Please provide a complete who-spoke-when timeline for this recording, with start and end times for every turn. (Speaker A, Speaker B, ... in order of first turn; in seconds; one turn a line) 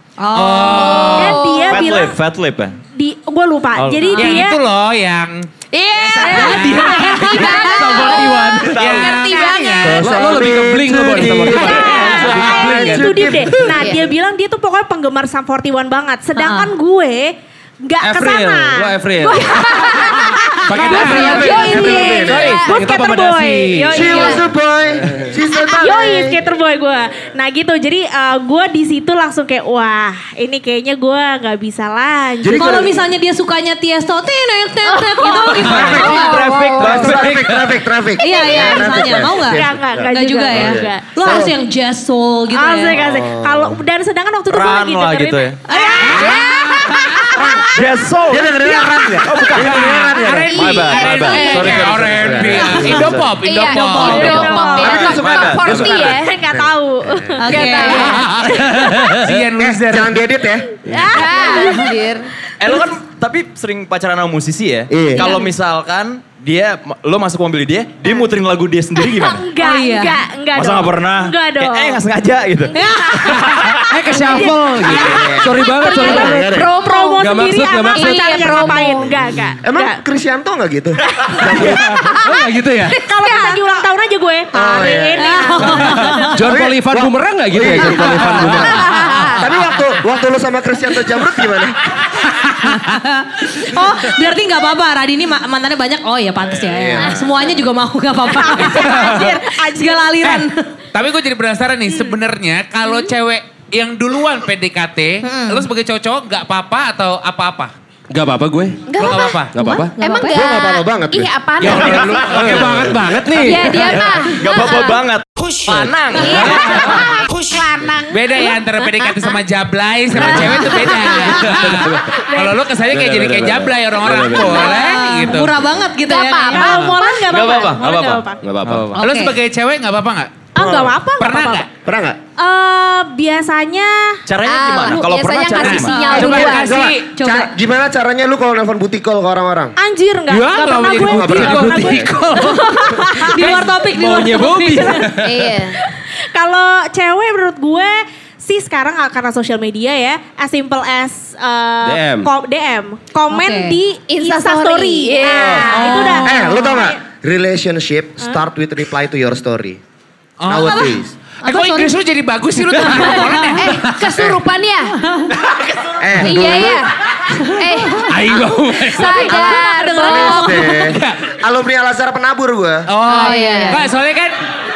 Speaker A: 0.2-1.1
Speaker B: 0.3-1.4
Speaker C: 0.7-1.9
Speaker D: 1.1-2.2
Speaker E: 1.6-2.8
Speaker D: 2.9-4.6
Speaker E: 3.7-4.4
Speaker B: 4.1-7.7
Speaker C: 5.7-10.0
Speaker D: 6.3-7.9
Speaker F: 6.3-9.0
Speaker A: 6.4-7.3
Speaker E: 8.6-9.1
Speaker B: 8.6-10.2
Speaker D: 9.2-9.7
Speaker G: 9.8-13.6
Speaker F: 10.0-13.8
Speaker D: 11.2-24.4
Speaker C: 11.7-12.2
Speaker C: 13.7-14.1
Speaker A: 16.4-16.7
Speaker F: 18.0-19.6
Speaker C: 19.3-22.7
Speaker F: 20.7-21.7
Speaker B: 20.7-21.3
Speaker G: 20.9-22.6
Speaker F: 22.2-24.4
Speaker G: 23.9-26.4
Speaker C: 23.9-24.4
Speaker D: 25.7-32.9
Speaker G: 32.4-33.0
Speaker A: 32.5-36.4
Speaker C: 34.8-37.1
Speaker G: 35.6-41.5
Speaker E: 35.7-37.4
Speaker F: 37.2-37.7
Speaker A: 38.2-43.0
Speaker D: 38.2-41.4
Speaker D: 42.5-47.7
Speaker G: 42.9-43.8
Speaker E: 44.5-45.6
Speaker A: 45.7-46.4
Speaker B: 46.2-46.5
Speaker C: 46.2-46.6
Speaker G: 47.3-50.7
Speaker E: 47.7-50.0
Speaker B: 49.6-54.6
Speaker E: 50.5-52.9
Speaker D: 50.7-51.7
Speaker C: 51.3-51.8
Speaker G: 51.6-53.2
Speaker C: 52.9-56.3
Speaker D: 53.7-55.2
Speaker G: 54.1-57.4
Speaker E: 54.8-56.1
Speaker D: 56.1-58.2
Speaker A: 57.4-58.2
Speaker C: 57.5-58.2
Speaker B: 58.0-60.2
Speaker F: 58.5-59.4
Speaker G: 59.6-60.8
Speaker C: 60.9-62.3
Speaker D: 60.9-61.8
Speaker E: 62.6-69.5
Speaker G: 64.9-65.3
Speaker D: 69.0-72.0
Speaker A: 69.6-70.2
Speaker E: 70.5-72.8
Speaker A: 72.7-73.4
Speaker F: 73.2-76.7
Speaker D: 74.0-80.0
Speaker G: 74.9-76.7
Speaker C: 74.9-77.2
Speaker F: 77.2-78.8
Speaker C: 77.9-79.1
Speaker G: 79.6-82.0
Speaker C: 81.0-82.4
Speaker F: 81.6-83.0
Speaker D: 82.9-86.5
Speaker C: 83.0-83.8
Speaker G: 84.5-85.7
Speaker A: 85.2-86.3
Speaker F: 85.7-88.8
Speaker G: 86.4-91.8
Speaker C: 88.7-89.5
Speaker A: 92.4-100.7
Speaker G: 96.6-97.2
Speaker C: 97.1-97.4
Speaker D: 98.3-100.1
Speaker B: 98.9-99.3
Speaker B: 100.2-107.7
Speaker A: 105.2-105.6
Speaker F: 108.1-108.9
Speaker C: 108.9-112.7
Speaker B: 109.0-109.5
Speaker F: 109.5-110.0
Speaker A: 109.6-110.5
Speaker G: 110.3-111.8
Speaker F: 111.6-114.3
Speaker E: 111.7-112.7
Speaker B: 112.3-113.0
Speaker C: 113.3-115.0
Speaker E: 114.3-116.6
Speaker C: 116.1-119.4
Speaker F: 116.4-116.7
Speaker B: 118.1-125.6
Speaker C: 120.2-121.3
Speaker F: 120.2-120.5
Speaker F: 121.2-122.2
Speaker F: 122.9-124.7
Speaker A: 124.5-126.8
Speaker C: 126.0-127.3
Speaker D: 126.5-128.4
Speaker E: 127.3-129.0
Speaker F: 128.4-128.9
Speaker A: 128.9-129.3
Speaker B: 128.9-130.5
Speaker D: 130.5-131.7
Speaker G: 130.6-130.9
Speaker B: 131.2-131.7
Speaker G: 131.8-132.2
Speaker D: 132.4-134.2
Speaker E: 134.3-136.1
Speaker C: 134.4-136.8
Speaker B: 135.6-137.1
Speaker A: 135.9-136.4
Speaker G: 136.1-139.7
Speaker A: 137.2-137.5
Speaker D: 139.8-143.3
Speaker B: 140.3-142.8
Speaker G: 141.1-141.9
Speaker F: 141.4-142.8
Speaker A: 143.1-145.1
Speaker F: 143.3-145.5
Speaker C: 145.1-145.8
Speaker D: 146.3-157.0
Speaker F: 151.8-152.3
Speaker A: 153.3-153.8
Speaker C: 154.1-156.0
Speaker A: 155.7-156.3
Speaker G: 156.2-159.8
Speaker B: 160.4-163.9
Speaker G: 160.4-161.1
Speaker A: 162.9-163.6
Speaker C: 163.0-164.9
Speaker G: 164.2-164.4
Speaker E: 165.4-165.9
Speaker G: 166.0-166.9
Speaker C: 166.1-168.1
Speaker F: 168.1-169.5
Speaker A: 168.8-171.0
Speaker C: 168.8-170.7
Speaker G: 170.0-172.9
Speaker B: 170.8-171.2
Speaker B: 172.9-174.3
Speaker A: 173.1-173.8
Speaker C: 173.1-173.8